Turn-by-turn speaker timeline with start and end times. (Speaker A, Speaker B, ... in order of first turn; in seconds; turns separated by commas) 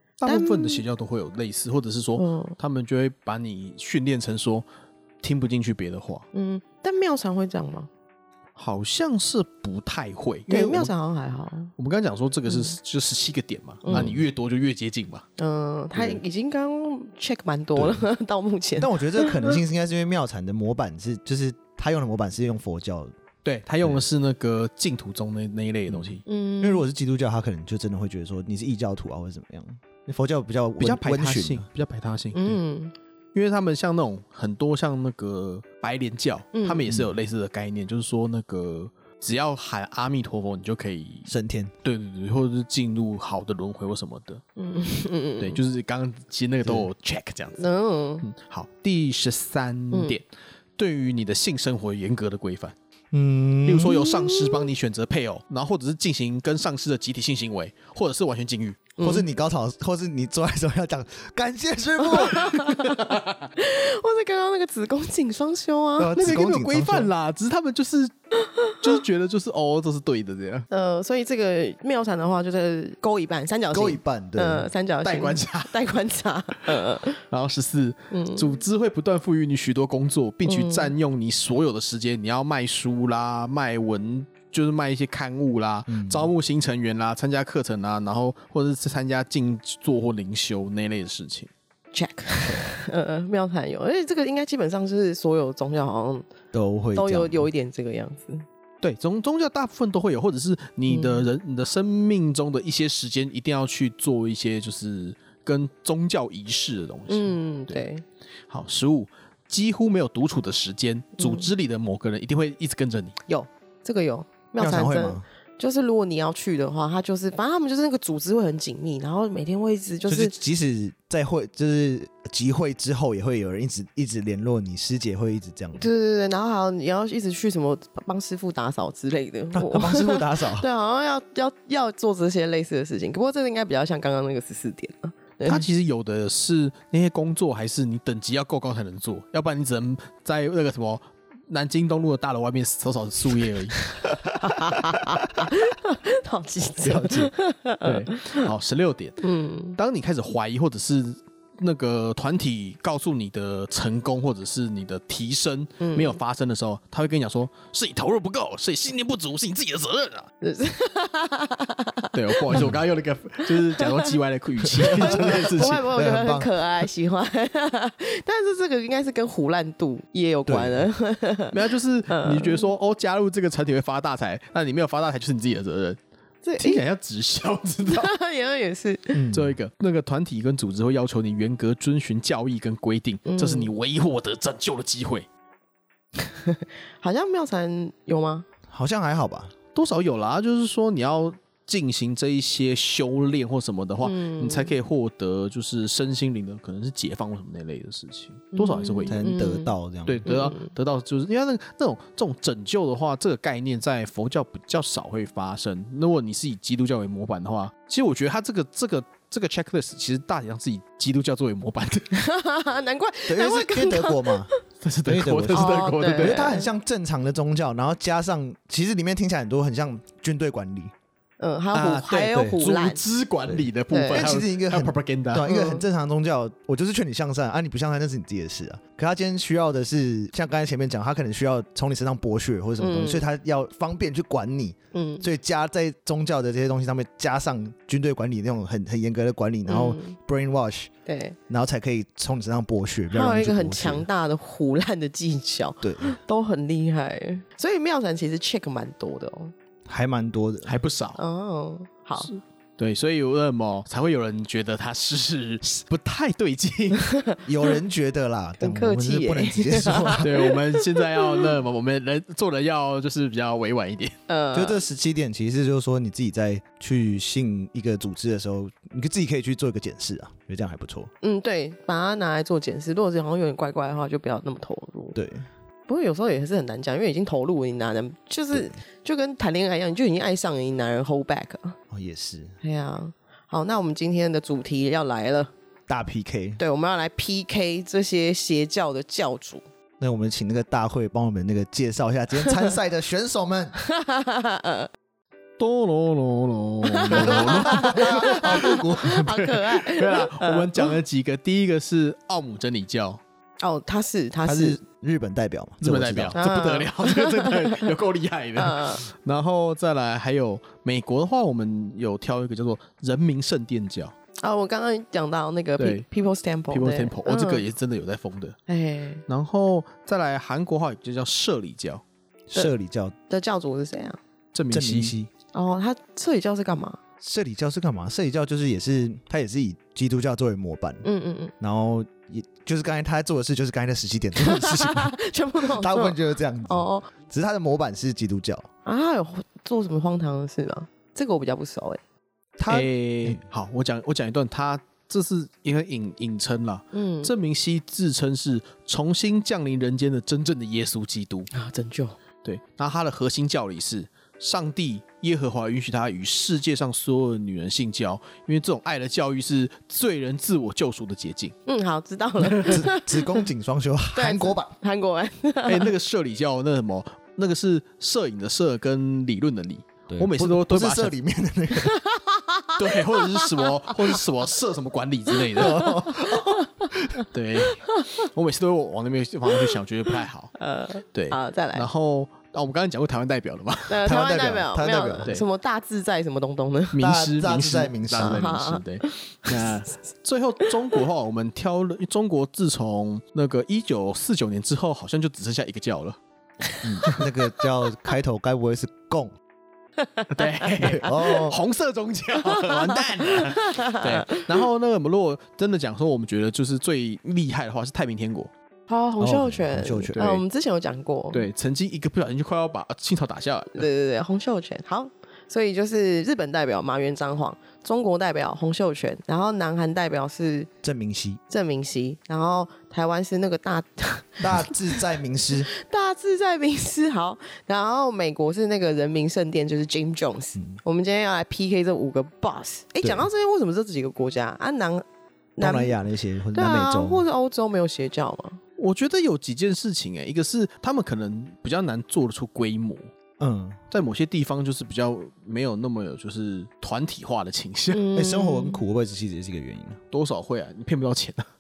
Speaker A: 0.2-4.7, Speaker B: 0.2-0.8, Speaker B: 2.2-2.6, Speaker A: 5.2-6.3, Speaker B: 6.3-7.9, Speaker A: 8.6-10.9, Speaker B: 10.5-11.7, Speaker A: 11.8-15.3, Speaker B: 12.5-12.8, Speaker B: 13.8-14.2, Speaker C: 13.9-14.2, Speaker B: 15.4-19.6, Speaker C: 18.8-23.1, Speaker A: 23.4-26.2, Speaker C: 25.9-31.7, Speaker B: 26.2-26.9, Speaker A: 30.8-32.6, Speaker B: 32.3-32.9, Speaker A: 33.3-41.3, Speaker B: 36.5-36.9, Speaker C: 41.3-41.7, Speaker A: 41.8-44.4, Speaker B: 44.6-45.6, Speaker A: 45.4-47.6, Speaker B: 47.6-48.3, Speaker A: 48.2-50.2, Speaker B: 49.9-50.2, Speaker A: 50.8-52.8, Speaker C: 53.1-54.1, Speaker A: 53.7-58.9, Speaker B: 54.0-54.7, Speaker B: 59.0-59.3, Speaker C: 59.0-62.5, Speaker B: 62.0-66.2, Speaker A: 62.9-63.3, Speaker C: 66.0-67.1, Speaker A: 66.2-68.1, Speaker A: 68.8-70.7, Speaker B: 70.7-77.2, Speaker C: 73.7-74.7, Speaker A: 75.0-75.8, Speaker A: 77.3-91.5, Speaker B: 78.1-78.6, Speaker B: 80.5-80.9, Speaker C: 85.9-86.3, Speaker B: 91.9-96.3, Speaker C: 96.5-97.5, Speaker B: 97.0-98.5, Speaker A: 98.8-107.8, Speaker B: 100.9-101.3, Speaker B: 107.1-108.0, Speaker A: 108.5-113.2, Speaker B: 111.2-111.5, Speaker B: 113.3-120.3, Speaker C: 114.6-115.2, Speaker C: 120.1-125.9, Speaker B: 125.8-135.7, Speaker C: 129.5-130.7, Speaker A: 135.4-143.8, Speaker B: 143.8-148.5, Speaker C: 146.8-147.3, Speaker A: 147.8-149.2, Speaker B: 149.2-149.8, Speaker A: 149.8-160.3, Speaker B: 155.8-156.2, Speaker B: 160.4-162.7, Speaker A: 162.1-165.9, Speaker C: 162.5-162.8, Speaker B: 163.5-164.1, Speaker C: 164.7-166.5, Speaker B: 164.8-171.6, Speaker C: 170.5-170.9, Speaker A: 171.5-176.0, Speaker B: 172.1-172.7, Speaker B: 176.4-176.8, Speaker A: 176.6-178.1, Speaker B: 177.9-179.2, Speaker C: 179.1-179.6, Speaker A: 179.3-185.3, Speaker B: 183.3-183.7, Speaker B: 186.2-188.5, Speaker C: 188.7-189.5, Speaker A: 189.8-199.2, Speaker B: 194.0-194.7, Speaker B: 198.5-199.7, Speaker C: 199.1-200.3, Speaker A: 200.1-212.2, Speaker B: 200.2-200.7, Speaker B: 212.1-214.6, Speaker C: 213.3-214.5, Speaker A: 214.8-216.4, Speaker C: 215.1-220.9, Speaker B: 215.5-216.7, Speaker B: 221.4-223.0, Speaker A: 221.7-225.5, Speaker C: 222.3-222.6, Speaker C: 223.5-240.9, Speaker B: 223.9-224.3, Speaker B: 225.4-225.8, Speaker B: 232.8-233.2, Speaker B: 234.9-235.3, Speaker B: 239.7-240.2, Speaker B: 241.1-241.4, Speaker C: 241.5-244.1, Speaker B: 243.1-249.5, Speaker C: 245.8-246.2, Speaker C: 249.9-250.8, Speaker A: 250.7-251.2, Speaker B: 251.2-252.3, Speaker A: 252.2-257.1, Speaker B: 257.0-257.4, Speaker C: 257.5-260.4, Speaker B: 258.6-261.5, Speaker A: 260.2-264.2, Speaker B: 264.3-264.8, Speaker C: 264.5-271.1, Speaker B: 271.2-275.2, Speaker C: 275.1-275.5, Speaker B: 275.9-281.8, Speaker C: 281.9-282.6, Speaker B: 282.6-285.5, Speaker C: 285.9-286.6, Speaker B: 286.6-289.6, Speaker C: 290.0-293.8, Speaker B: 293.8-294.9, Speaker A: 295.6-303.2, Speaker B: 296.8-300.9, Speaker C: 297.1-299.3, Speaker B: 303.6-304.8, Speaker C: 304.5-306.4, Speaker A: 305.8-314.1, Speaker B: 306.4-307.9, Speaker B: 308.6-309.1, Speaker B: 314.4-317.6, Speaker A: 315.8-316.1, Speaker A: 316.7-318.6, Speaker B: 318.7-319.2, Speaker A: 319.3-322.0, Speaker C: 322.5-323.1, Speaker B: 323.3-324.2, Speaker A: 324.5-325.1, Speaker C: 324.7-325.3, Speaker B: 325.5-327.0, Speaker C: 327.2-331.0, Speaker B: 331.0-331.5, Speaker C: 331.6-338.7, Speaker B: 334.4-337.1, Speaker B: 338.9-342.0, Speaker C: 342.6-343.5, Speaker A: 342.7-351.5, Speaker B: 346.9-347.3, Speaker B: 351.5-352.2, Speaker A: 352.4-361.6, Speaker B: 361.7-363.4, Speaker C: 362.6-364.7, Speaker B: 364.1-365.9, Speaker A: 365.7-371.1, Speaker C: 370.1-372.0, Speaker B: 371.8-374.2, Speaker A: 372.8-375.9, Speaker B: 375.5-378.2, Speaker C: 375.6-377.2, Speaker A: 377.3-380.5, Speaker B: 380.6-381.9, Speaker A: 381.1-384.0, Speaker B: 383.9-387.1, Speaker C: 384.1-385.3, Speaker A: 386.9-396.2, Speaker C: 387.0-388.5, Speaker B: 388.2-389.9, Speaker B: 396.7-397.1, Speaker C: 396.8-399.3, Speaker B: 400.0-401.2, Speaker A: 400.3-408.5, Speaker C: 400.9-401.6, Speaker B: 402.5-404.5, Speaker B: 408.9-411.5, Speaker C: 409.2-410.2, Speaker A: 410.1-410.4, Speaker A: 411.3-413.9, Speaker B: 413.8-420.7, Speaker C: 420.8-421.4, Speaker B: 421.5-425.0, Speaker C: 424.4-425.7, Speaker B: 425.7-435.0, Speaker C: 433.0-433.3, Speaker B: 435.6-436.0, Speaker C: 435.6-437.2, Speaker B: 436.5-438.6, Speaker A: 438.8-443.1, Speaker C: 443.4-443.8, Speaker A: 443.9-448.0, Speaker B: 447.9-448.8, Speaker C: 448.1-450.0, Speaker A: 450.1-451.5